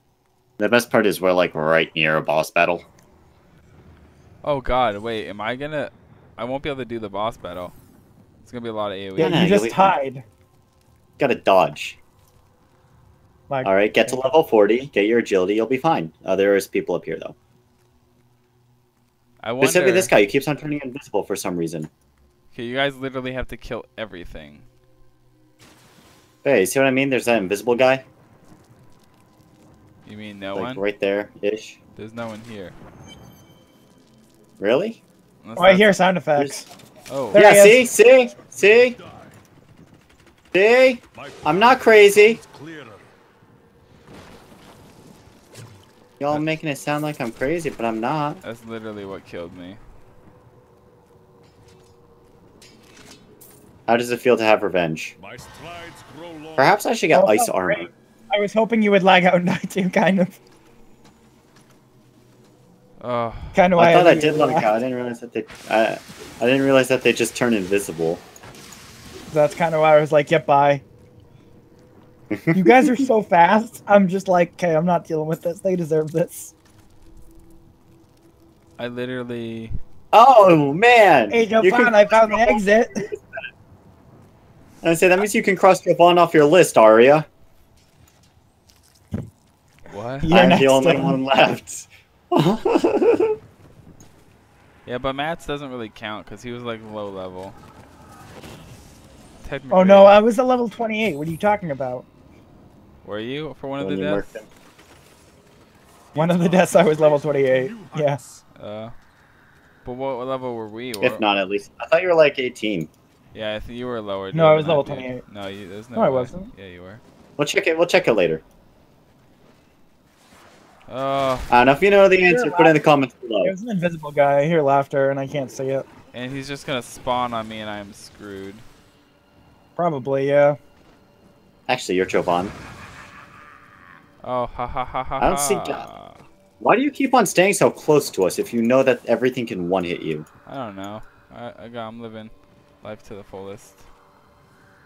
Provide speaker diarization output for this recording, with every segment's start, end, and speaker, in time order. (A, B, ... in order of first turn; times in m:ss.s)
0:00.6-0:02.8 A
0:04.4-0:07.8 B
0:08.4-0:09.5 B
0:09.2-0:10.2 C
0:09.2-0:09.9 A
0:11.2-0:12.0 A
0:13.5-0:14.2 C
0:13.6-0:17.4 A
0:19.4-0:20.1 B
0:19.6-0:21.9 A
0:22.5-0:24.7 B
0:26.4-0:28.0 A
0:30.0-0:30.8 B
0:30.5-0:31.8 A
0:32.0-0:32.7 B
0:34.6-0:35.0 A
0:35.4-0:36.0 B
0:35.6-0:36.7 C
0:37.1-0:37.4 B
0:37.3-0:37.8 C
0:37.3-0:39.0 A
0:38.0-0:39.4 D
0:40.5-0:42.4 A
0:41.1-0:43.1 D
0:46.2-0:48.4 A
0:48.4-0:49.8 B
0:53.9-0:55.1 A
0:55.2-0:56.8 D
0:56.6-0:57.9 A
0:57.1-1:00.4 C
1:03.0-1:03.7 B
1:03.5-1:04.7 C
1:03.8-1:08.2 A
1:09.3-1:10.8 C
1:12.3-1:13.0 A
1:12.5-1:16.5 C
1:18.8-1:19.7 B
1:20.1-1:23.4 A
1:21.3-1:23.0 C
1:24.8-1:27.3 A
1:29.9-1:30.3 B
1:30.2-1:31.2 C
1:30.3-1:33.4 A
1:34.8-1:37.6 B
1:39.4-1:40.2 B
1:39.7-1:42.1 C
1:43.0-1:44.4 B
1:43.8-1:44.5 A
1:46.1-1:48.4 D
1:46.2-1:48.2 C
1:48.5-1:48.9 B
1:49.8-1:51.2 B
1:51.0-1:52.9 A
1:53.3-1:57.0 B
1:54.3-1:55.2 C
1:55.9-1:56.5 C
1:57.4-1:58.4 A
2:00.9-2:01.5 B
2:01.5-2:03.5 A
2:02.2-2:02.8 C
2:03.4-2:05.8 C
2:06.1-2:08.6 B
2:09.8-2:10.6 C
2:11.7-2:12.5 A
2:14.2-2:16.2 B
2:15.2-2:15.8 A
2:16.6-2:20.2 A
2:20.4-2:23.9 B